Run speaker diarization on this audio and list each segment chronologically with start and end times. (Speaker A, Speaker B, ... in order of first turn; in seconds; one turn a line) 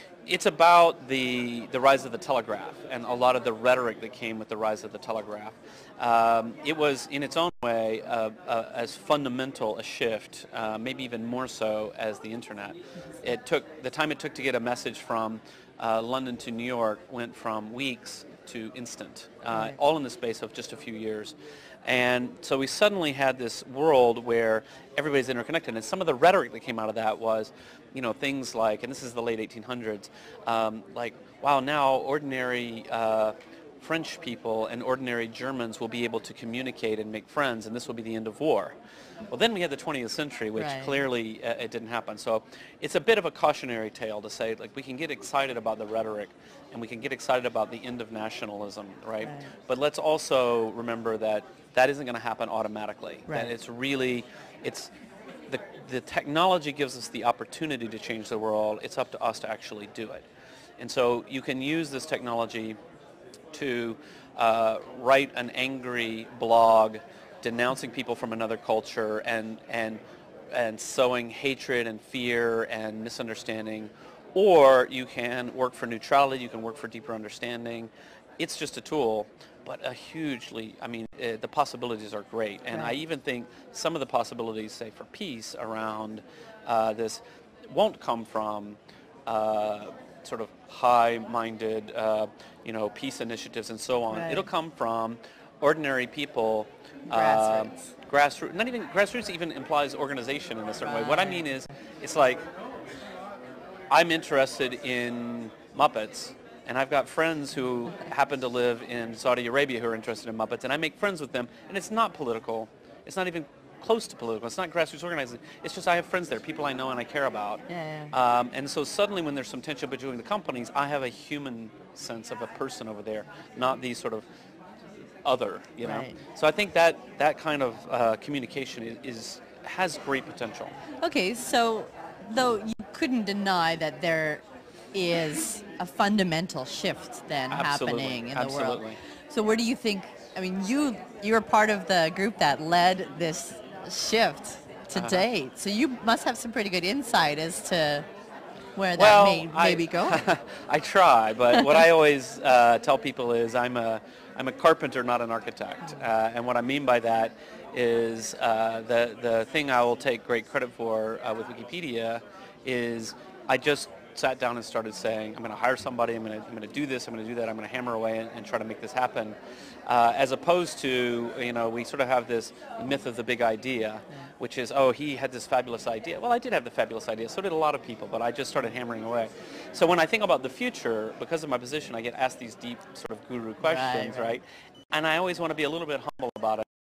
Speaker A: 0.3-38.8
Speaker A: 39.3-54.9
Speaker B: 40.6-41.0
Speaker B: 49.2-49.5
Speaker A: 55.5-60.3
Speaker A: 60.8-62.8
Speaker A: 63.5-70.0
Speaker A: 70.5-102.4
Speaker B: 94.1-94.5
Speaker B: 97.1-97.9
Speaker B: 100.8-101.5
Speaker A: 103.9-124.3
Speaker B: 117.7-118.1
Speaker A: 125.2-130.7
Speaker B: 125.8-126.2
Speaker B: 131.0-134.4
Speaker B: 134.9-148.1
Speaker A: 137.5-139.0
Speaker A: 144.9-145.3
Speaker B: 148.8-150.2
Speaker A: 149.0-186.7
Speaker B: 183.6-184.4